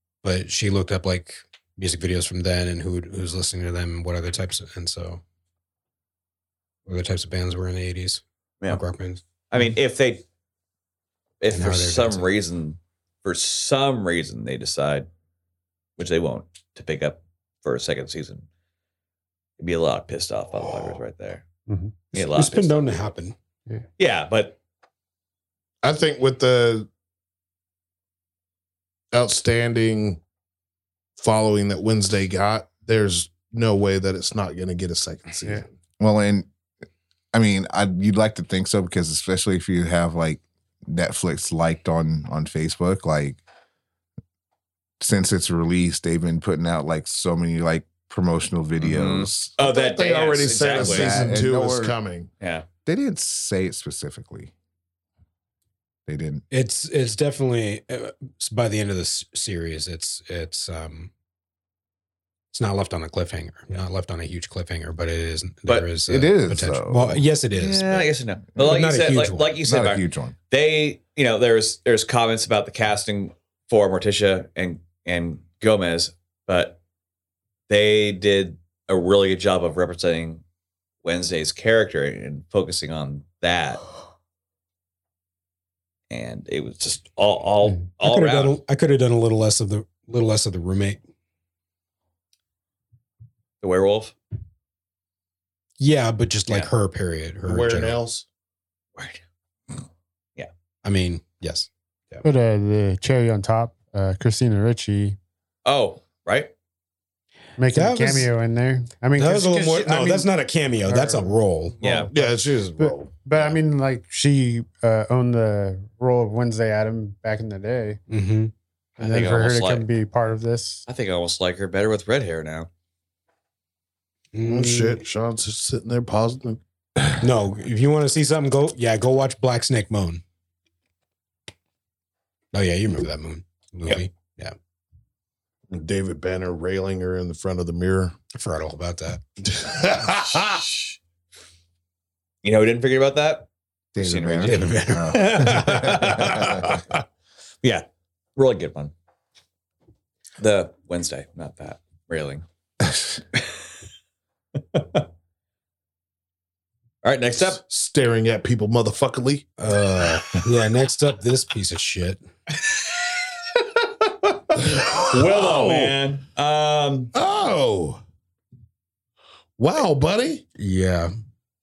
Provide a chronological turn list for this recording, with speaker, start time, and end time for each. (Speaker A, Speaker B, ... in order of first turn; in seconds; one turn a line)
Speaker A: 0.2-5.2
Speaker A: 6.9-9.2
Speaker B: 9.5-10.2
Speaker B: 11.4-15.1
Speaker A: 11.5-12.3
Speaker B: 16.0-18.4
Speaker B: 19.6-21.4
Speaker C: 21.7-21.9
Speaker A: 22.1-23.3
Speaker B: 22.1-22.8
Speaker B: 24.0-24.6
Speaker D: 25.8-26.9
Speaker D: 29.1-30.2
Speaker D: 31.2-35.7
Speaker E: 36.0-36.5
Speaker E: 37.3-43.4
Speaker E: 45.0-49.5
Speaker B: 48.8-51.2
Speaker D: 49.6-52.3
Speaker E: 50.8-52.0
Speaker B: 52.4-52.6
Speaker E: 52.8-54.5
Speaker E: 56.0-56.4
Speaker A: 56.5-61.1
Speaker A: 62.5-69.5
Speaker E: 66.0-67.2
Speaker B: 67.5-76.8
Speaker E: 69.6-70.3
Speaker B: 77.7-80.4
Speaker B: 81.0-83.8
Speaker B: 86.1-88.5
Speaker A: 88.0-91.0
Speaker B: 93.6-94.1
Speaker A: 95.8-98.0
Speaker D: 97.5-98.2
Speaker B: 99.0-99.2
Speaker A: 100.8-102.2
Speaker C: 102.2-105.2
Speaker B: 105.6-106.5
Speaker C: 107.6-110.3
Speaker A: 107.7-108.3
Speaker A: 109.2-111.8
Speaker C: 110.8-118.0
Speaker B: 111.8-112.1
Speaker D: 112.1-113.2
Speaker A: 118.1-118.5
Speaker C: 119.0-120.8
Speaker B: 119.0-119.8
Speaker B: 120.9-122.7
Speaker A: 124.3-125.0
Speaker D: 124.4-126.6
Speaker A: 127.2-130.2
Speaker A: 132.5-134.5
Speaker D: 135.7-138.1
Speaker A: 138.3-139.2
Speaker D: 139.5-140.6
Speaker B: 140.1-141.0
Speaker B: 142.4-146.8
Speaker E: 143.9-146.6
Speaker A: 144.5-146.2
Speaker B: 147.6-148.9
Speaker B: 150.4-152.4
Speaker B: 154.7-155.0
Speaker B: 157.0-157.6
Speaker D: 157.5-159.5
Speaker A: 159.6-162.2
Speaker B: 162.6-162.9
Speaker B: 163.5-167.1
Speaker D: 164.6-165.9
Speaker D: 167.1-168.0
Speaker D: 169.6-170.4
Speaker A: 170.6-171.1